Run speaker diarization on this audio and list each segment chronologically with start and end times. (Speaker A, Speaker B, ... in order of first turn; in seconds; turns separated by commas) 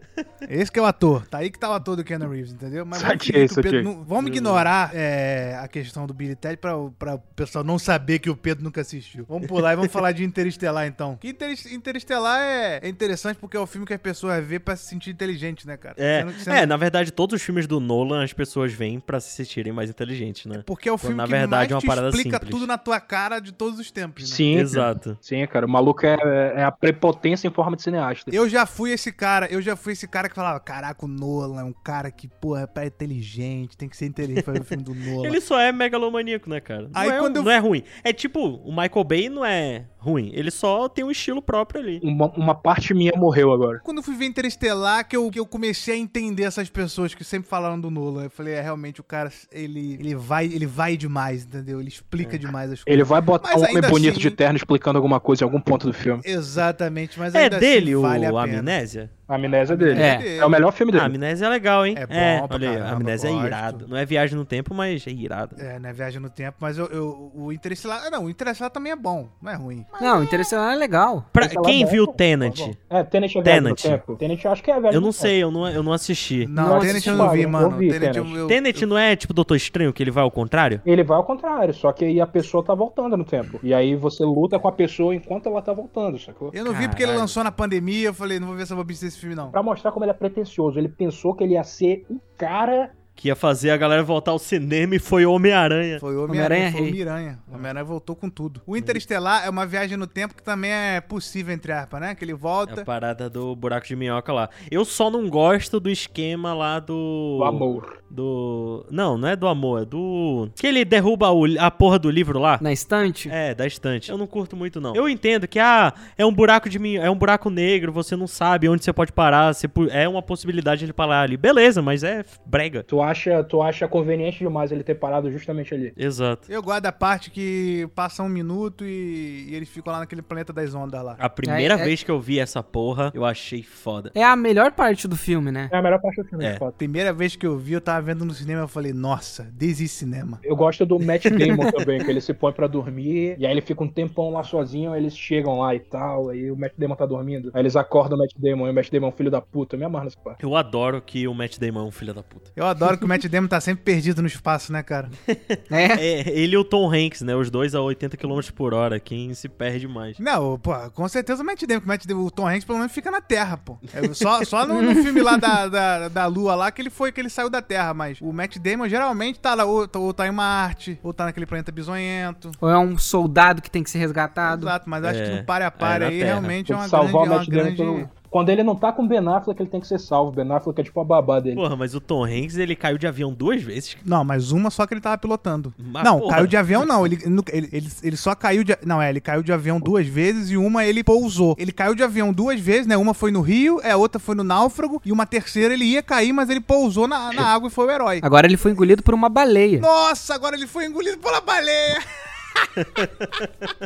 Speaker A: 0.5-16.7, Speaker B: 2.9-3.9, Speaker C: 4.2-4.7, Speaker C: 16.0-22.7, Speaker A: 20.5-24.4, Speaker B: 24.2-28.3, Speaker C: 24.5-25.2, Speaker A: 28.3-35.4, Speaker C: 34.3-34.6, Speaker C: 35.2-42.0, Speaker A: 36.9-37.5, Speaker B: 42.0-43.8, Speaker A: 43.8-54.4, Speaker B: 52.9-56.2, Speaker A: 56.2-58.7, Speaker C: 57.3-59.1, Speaker B: 59.3-61.1, Speaker A: 59.7-60.6, Speaker D: 59.9-60.3, Speaker C: 60.9-65.6, Speaker A: 61.9-63.8, Speaker A: 65.6-70.5, Speaker D: 70.0-71.3, Speaker C: 71.3-72.8, Speaker B: 71.4-75.3, Speaker C: 73.4-74.0, Speaker C: 74.9-76.5, Speaker A: 76.4-78.9, Speaker D: 76.5-77.5, Speaker B: 76.5-78.4, Speaker C: 78.5-80.8, Speaker B: 80.8-86.5, Speaker A: 86.5-89.5, Speaker D: 86.7-87.2, Speaker C: 86.9-87.3, Speaker B: 89.5-92.9, Speaker C: 93.2-96.0, Speaker A: 96.0-102.8, Speaker D: 96.2-97.0, Speaker C: 102.7-112.6, Speaker B: 107.4-108.0, Speaker D: 112.6-113.3, Speaker C: 113.3-122.9, Speaker B: 122.9-125.9, Speaker C: 126.0-126.5, Speaker A: 126.5-131.2, Speaker C: 131.2-134.1, Speaker D: 131.4-131.9, Speaker D: 134.1-135.7, Speaker B: 135.7-136.8, Speaker A: 136.8-140.4, Speaker B: 140.4-150.4, Speaker C: 150.4-152.5, Speaker A: 152.6-155.1, Speaker C: 155.3-160.2, Speaker D: 155.7-156.0, Speaker A: 160.2-172.6, Speaker D: 164.7-165.4, Speaker D: 172.6-174.7, Speaker A: 174.4-178.1, Speaker C: 175.0-176.6, Speaker B: 176.7-181.6, Speaker C: 181.5-184.0, Speaker A: 184.0-198.2, Speaker C: 185.8-186.9, Speaker D: 198.2-199.9, Speaker A: 199.8-202.0, Speaker C: 202.8-203.7